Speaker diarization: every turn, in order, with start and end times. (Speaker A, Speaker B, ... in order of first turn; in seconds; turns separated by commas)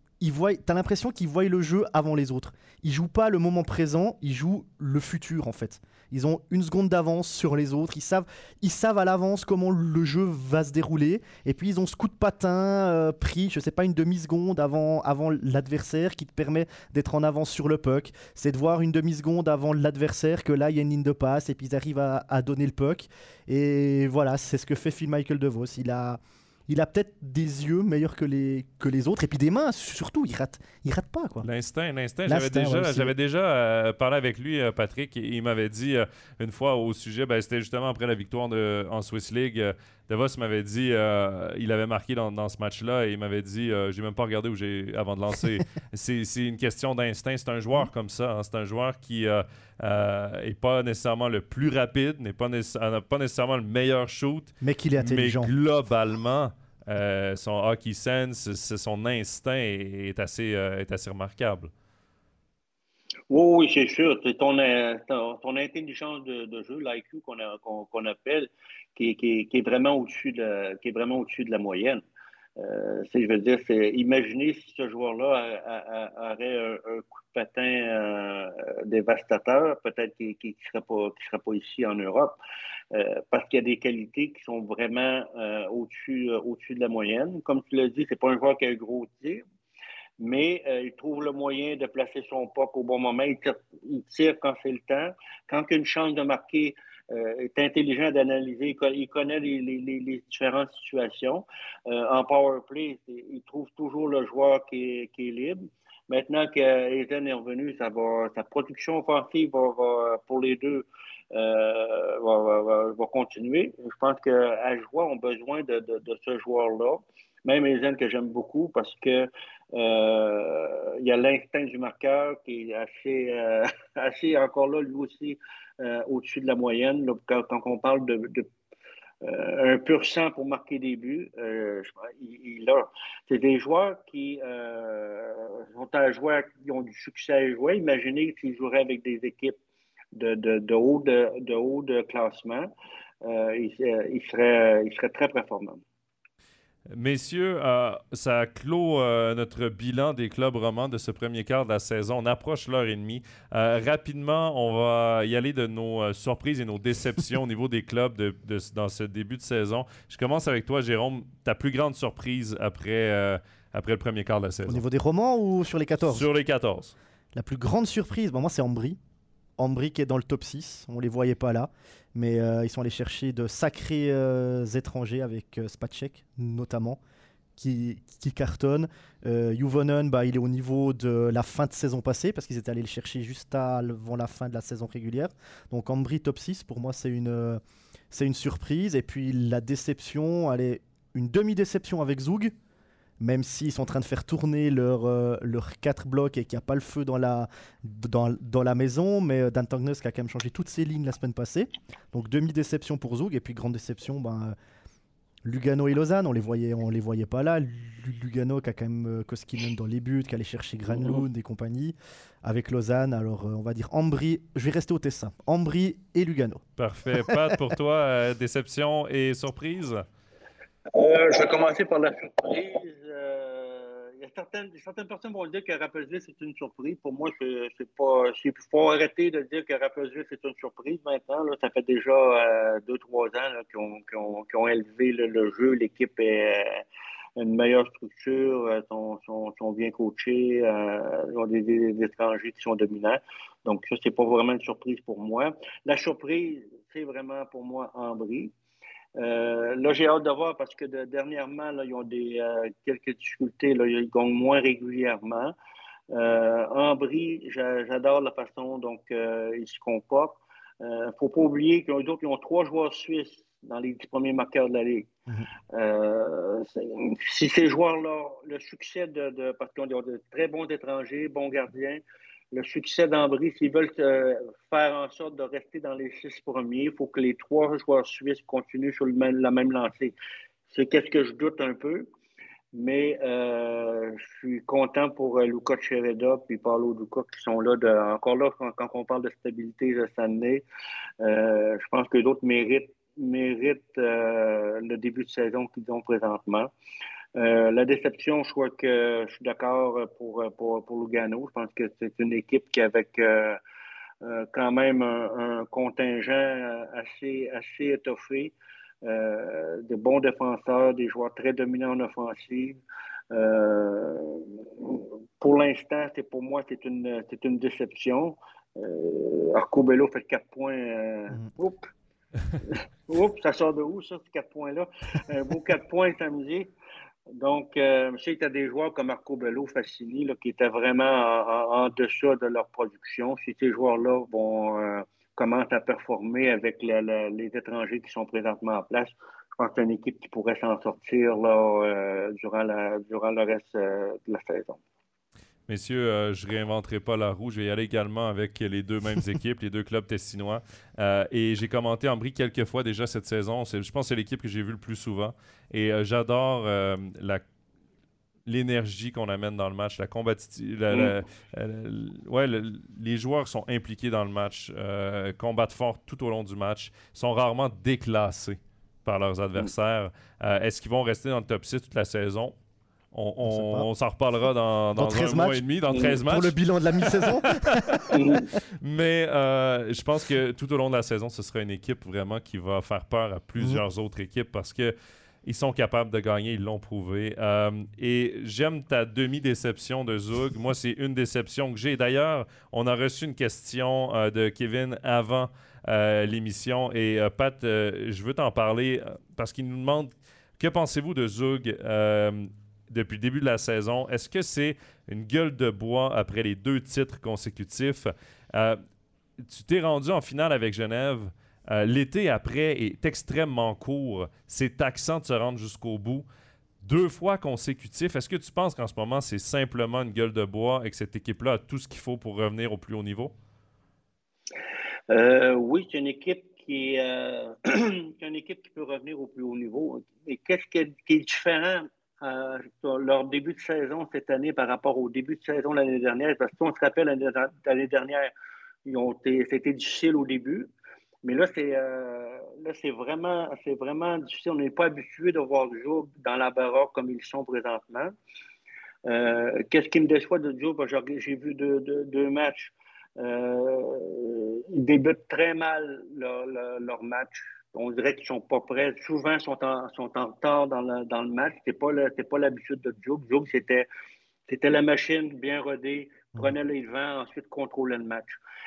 Speaker A: 0.2-31.5, Speaker B: 31.4-61.7, Speaker A: 32.3-33.1, Speaker A: 54.6-55.5, Speaker C: 63.3-72.0, Speaker C: 72.6-82.4, Speaker C: 82.9-89.4, Speaker C: 90.2-128.5, Speaker C: 129.2-139.6, Speaker C: 140.1-142.7, Speaker C: 143.2-145.8, Speaker B: 146.9-164.8, Speaker A: 164.7-166.3, Speaker B: 166.1-166.9, Speaker A: 167.3-169.0, Speaker A: 169.6-177.0, Speaker A: 177.6-192.5, Speaker A: 193.2-204.5, Speaker A: 205.4-216.6, Speaker B: 216.8-220.0, Speaker C: 220.9-236.8, Speaker C: 237.4-248.5, Speaker C: 249.2-255.5, Speaker C: 256.1-265.1, Speaker C: 265.7-272.0, Speaker C: 272.5-280.1, Speaker C: 280.7-282.1, Speaker C: 282.7-290.6, Speaker C: 291.2-296.7, Speaker C: 297.3-303.6, Speaker C: 304.2-312.8, Speaker C: 313.3-321.9, Speaker C: 322.6-326.7, Speaker C: 327.3-344.8, Speaker B: 345.7-357.4, Speaker B: 358.4-372.5, Speaker C: 360.9-361.1, Speaker B: 373.1-384.9, Speaker A: 373.4-373.9, Speaker A: 374.9-378.1, Speaker C: 375.9-376.1, Speaker C: 378.1-378.5, Speaker B: 385.4-408.8, Speaker B: 409.4-416.2, Speaker B: 416.8-423.3, Speaker C: 425.1-438.3, Speaker C: 438.8-440.7, Speaker C: 441.2-448.1, Speaker C: 449.1-463.9, Speaker C: 464.5-468.3